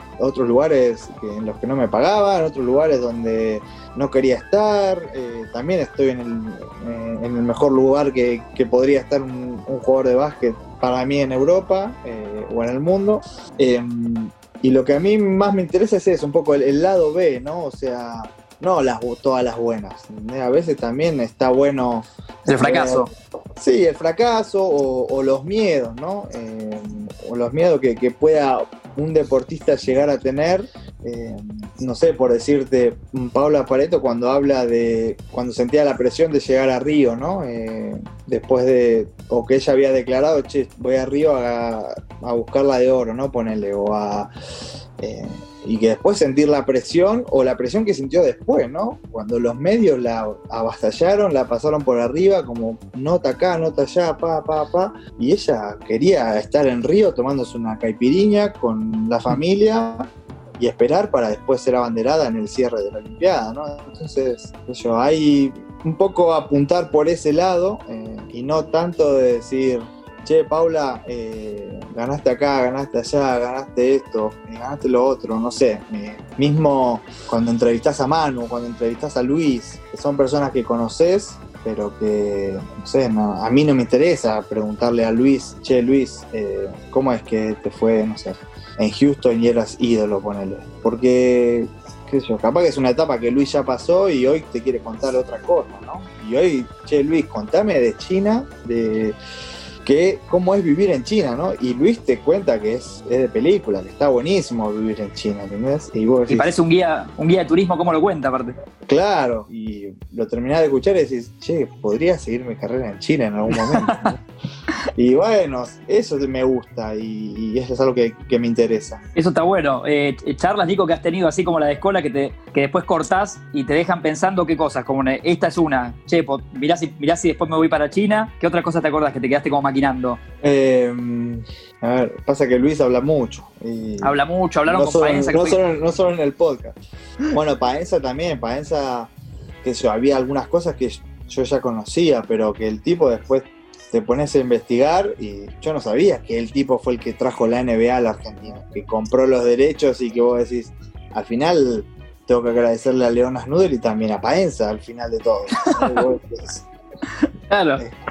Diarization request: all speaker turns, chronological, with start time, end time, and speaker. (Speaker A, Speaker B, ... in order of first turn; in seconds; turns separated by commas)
Speaker A: 0.2-22.1, Speaker B: 22.5-23.1, Speaker A: 22.6-23.1, Speaker A: 23.6-44.3, Speaker A: 45.0-99.2, Speaker A: 99.8-106.5, Speaker B: 106.3-108.5, Speaker A: 108.9-114.2, Speaker B: 113.8-114.1, Speaker A: 115.0-119.0, Speaker B: 119.2-130.2, Speaker A: 130.4-134.1, Speaker B: 134.0-135.6, Speaker A: 134.7-136.8, Speaker A: 137.3-139.1, Speaker A: 139.6-156.6, Speaker B: 157.5-157.8